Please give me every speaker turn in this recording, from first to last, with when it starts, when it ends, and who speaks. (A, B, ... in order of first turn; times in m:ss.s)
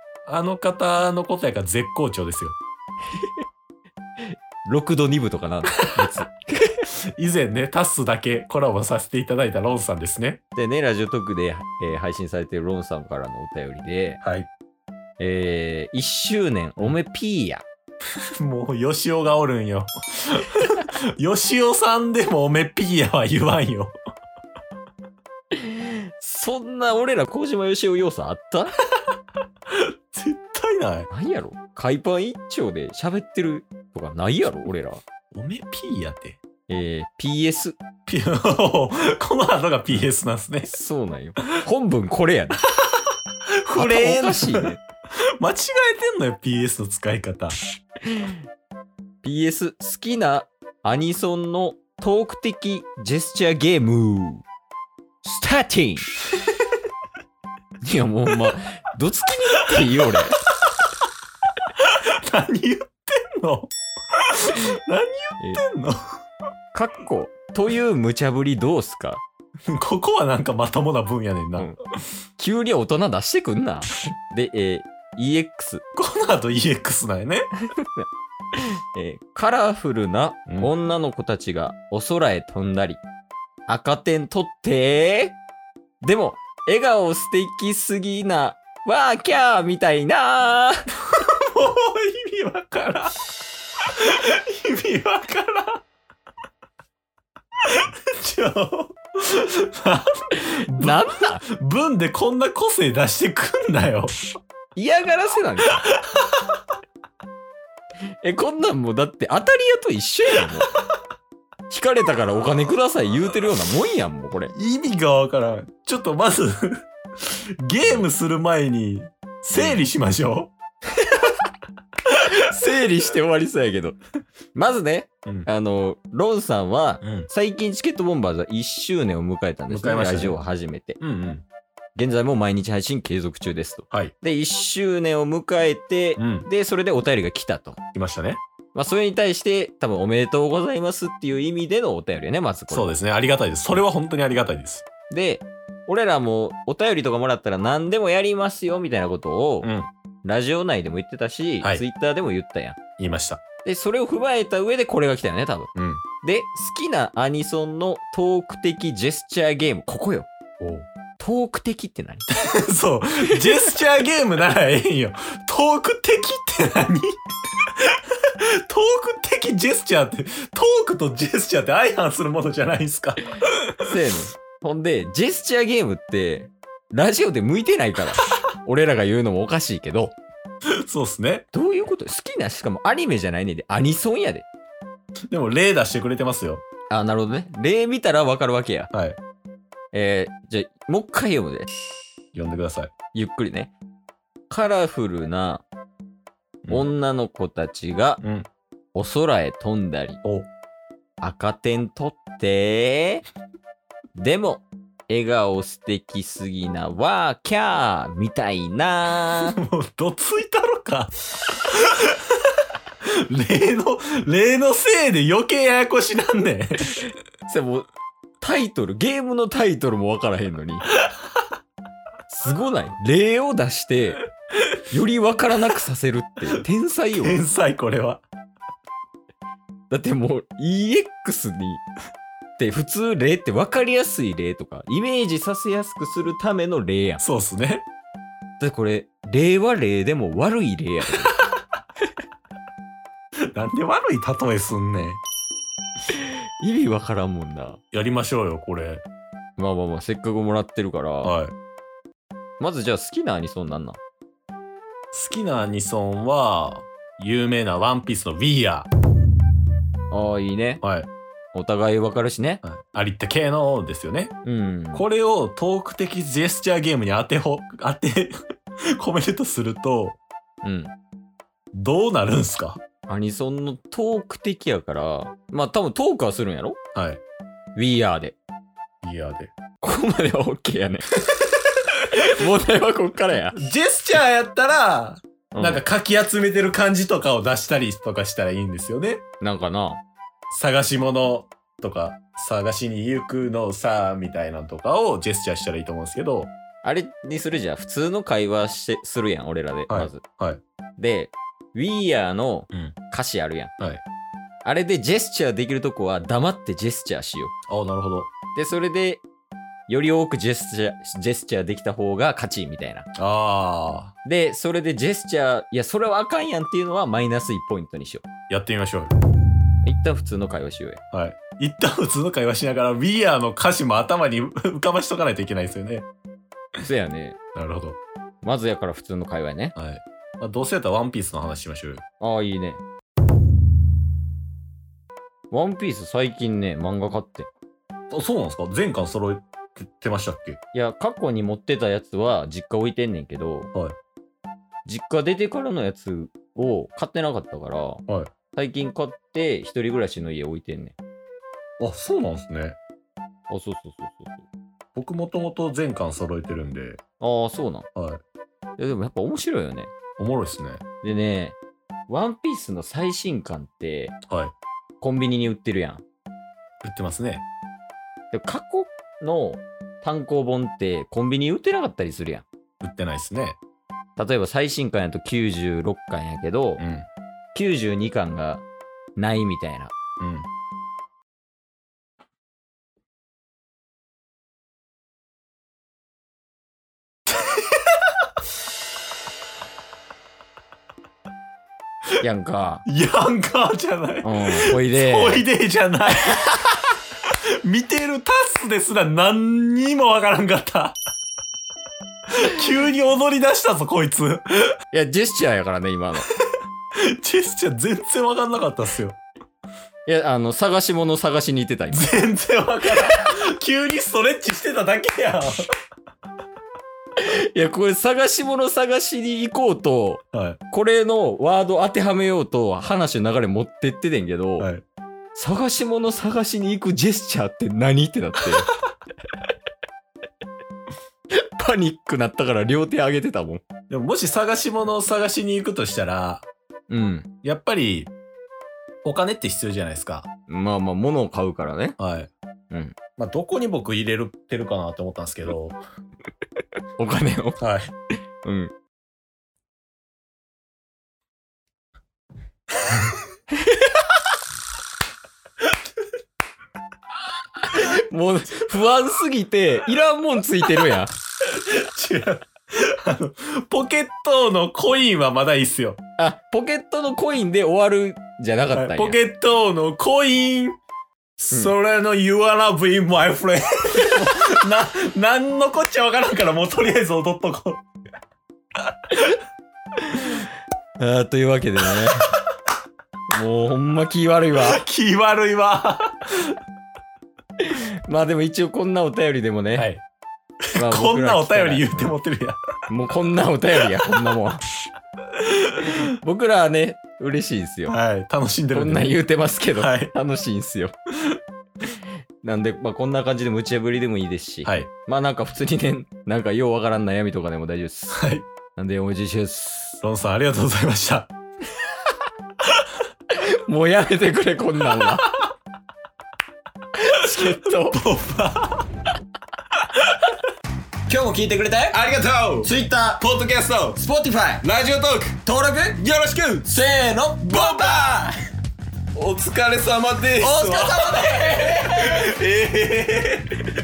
0:00.3-0:02.6 A
0:04.3-0:06.8 B
0:07.2-0:10.4 A
0:10.6-0:14.2 B
0:14.2-0:14.5 A
0:15.2-0:17.6 B
0:18.4-0:23.9 A
0:25.5-0:28.7 B
0:29.7-0:31.1 A
0:31.1-0:35.0 B
0:35.3-0:36.4 A
0:36.7-0:37.8 B
0:38.1-0:40.7 A
0:40.7-0:42.6 B
0:43.6-0:44.7 A
0:43.8-0:44.8 B
0:45.4-0:47.6 A
0:48.1-0:48.4 B
0:49.2-0:54.4 B
0:55.2-0:56.1 B
0:57.8-1:00.4 B
1:01.8-1:06.0 A
1:06.7-1:09.2 B
1:09.7-1:11.7 A
1:12.4-1:15.8 B
1:16.0-1:17.5 A
1:17.8-1:23.0 B
1:23.7-1:25.4 B
1:26.0-1:30.9 B
1:31.1-1:33.1 A
1:33.9-1:35.8 A
1:37.7-1:44.2 A
1:40.4-1:41.4 B
1:44.8-1:45.8 B
1:45.7-1:46.3 A
1:48.2-1:50.7 B
1:51.7-1:54.5 B
1:54.5-2:00.5 A
1:59.6-1:59.8 B
2:02.1-2:04.0 B
2:04.5-2:11.0 B
2:07.0-2:07.3 A
2:09.7-2:10.4 A
2:11.0-2:11.4 A
2:12.0-2:17.8 B
2:16.2-2:16.5 A
2:18.0-2:18.4 A
2:18.8-2:23.0 B
2:22.7-2:24.9 A
2:25.1-2:29.7 B
2:29.6-2:29.9 A
2:30.2-2:32.8 B
2:33.0-2:33.4 A
2:33.6-2:40.3 B
2:35.8-2:36.0 A
2:40.6-2:40.9 A
2:41.2-2:42.3 B
2:42.4-2:47.2 A
2:47.8-2:53.8 A
2:53.8-3:00.2 B
3:00.8-3:01.4 A
3:01.5-3:04.5 B
3:05.3-3:06.6 A
3:06.9-3:08.9 B
3:08.9-3:09.2 A
3:09.9-3:11.7 B
3:12.3-3:12.9 A
3:13.1-3:13.7 B
3:14.5-3:15.6 B
3:16.6-3:16.9 A
3:16.7-3:18.2 B
3:18.2-3:18.5 A
3:19.0-3:20.2 B
3:21.2-3:23.2 B
3:24.2-3:29.6 B
3:29.4-3:31.1 A
3:31.7-3:32.2 A
3:33.1-3:37.0 A
3:37.5-3:37.9 B
3:38.4-3:40.9 B
3:42.3-3:44.2 B
3:44.9-3:47.4 B
3:47.2-3:48.2 A
3:49.9-3:51.8 B
3:52.6-3:57.2 B
3:57.2-3:57.8 A
3:58.6-4:01.4 B
4:03.5-4:05.2 A
4:06.1-4:07.8 B
4:07.9-4:09.0 A
4:09.6-4:11.3 B
4:11.2-4:11.5 A
4:12.6-4:14.0 B
4:15.1-4:18.9 A
4:20.1-4:20.8 B
4:20.8-4:21.1 A
4:21.5-4:22.6 B
4:22.6-4:24.3 A
4:24.4-4:25.0 B
4:24.9-4:28.3 A
4:29.0-4:30.2 A
4:30.6-4:30.9 B
4:31.7-4:32.8 A
4:33.1-4:36.8 B
4:37.0-4:37.2 A
4:37.8-4:38.4 B
4:39.0-4:39.6 A
4:39.8-4:41.0 B
4:42.1-4:43.6 B
4:43.6-4:49.2 A
4:45.5-4:45.8 B
4:49.4-4:50.0 B
4:50.5-4:56.5 A
4:56.8-5:00.2 B
4:59.9-5:00.6 A
5:01.0-5:03.7 B
5:04.6-5:07.5 B
5:07.7-5:08.3 A
5:08.5-5:09.2 B
5:09.9-5:13.1 B
5:13.2-5:14.1 A
5:14.2-5:18.2 B
5:18.5-5:19.1 A
5:19.8-5:21.0 B
5:21.1-5:26.1 A
5:26.8-5:27.4 B
5:27.6-5:28.0 A
5:28.4-5:29.8 B
5:29.8-5:32.0 A
5:32.2-5:32.8 B
5:35.5-5:37.5 B
5:38.1-5:40.6 A
5:40.7-5:43.7 B
5:44.9-5:48.0 B
5:48.5-5:51.0 B
5:51.8-5:52.8 A
5:53.5-5:54.5 B
5:55.0-5:57.0 A
5:57.2-5:57.9 B
5:58.8-5:59.9 B
6:00.2-6:00.8 A
6:01.0-6:01.6 B
6:02.1-6:04.2 B
6:04.3-6:04.5 A
6:05.0-6:06.0 B
6:06.8-6:07.4 A
6:08.3-6:12.4 B
6:12.8-6:13.6 A
6:14.2-6:16.8 B
6:16.8-6:17.1 A
6:17.5-6:18.6 B
6:19.2-6:19.9 B
6:20.2-6:20.5 A
6:27.4-6:27.8 A
6:32.2-6:32.8 B
6:32.9-6:36.4 A
6:34.2-6:35.4 B
6:37.6-6:41.0 A
6:42.3-6:44.6 A
6:44.9-6:46.3 B
6:47.0-6:49.2 A
6:50.1-6:52.1 B
6:51.9-6:55.6 A
6:57.2-7:04.7 B
7:00.3-7:00.6 A
7:04.6-7:04.8 A
7:05.4-7:08.7 B
7:11.3-7:13.6 B
7:13.9-7:16.5 A
7:16.9-7:17.3 B
7:17.4-7:18.1 A
7:19.0-7:20.3 A
7:20.5-7:22.0 B
7:22.0-7:22.3 A
7:23.2-7:25.8 A
7:27.0-7:27.6 B
7:27.6-7:27.9 A
7:28.4-7:28.7 B
7:33.6-7:34.1 B
7:37.6-7:41.1 B
7:41.5-7:46.0 A
7:46.2-7:49.2 B
7:48.7-7:50.8 A
7:51.4-7:57.8 A
8:00.0-8:00.5 B
8:01.0-8:02.3 B
8:03.3-8:04.8 B
8:04.6-8:06.6 A
8:07.6-8:09.9 B
8:09.8-8:10.0 A
8:10.8-8:12.6 A
8:10.8-8:12.1 B
8:12.9-8:14.6 B
8:15.4-8:15.7 A
8:15.8-8:18.0 B
8:17.9-8:19.2 A
8:18.7-8:20.9 B
8:19.7-8:20.1 A
8:22.4-8:28.2 B
8:24.6-8:24.9 A
8:28.1-8:28.5 A
8:28.8-8:30.0 B
8:30.0-8:31.3 A
8:33.3-8:35.4 B
8:37.0-8:38.0 B
8:37.9-8:38.8 A
8:41.1-8:42.0 B
8:41.9-8:42.7 A
8:42.6-8:48.3 B
8:47.4-8:48.3 A
8:49.2-8:53.7 A
8:50.4-8:52.2 B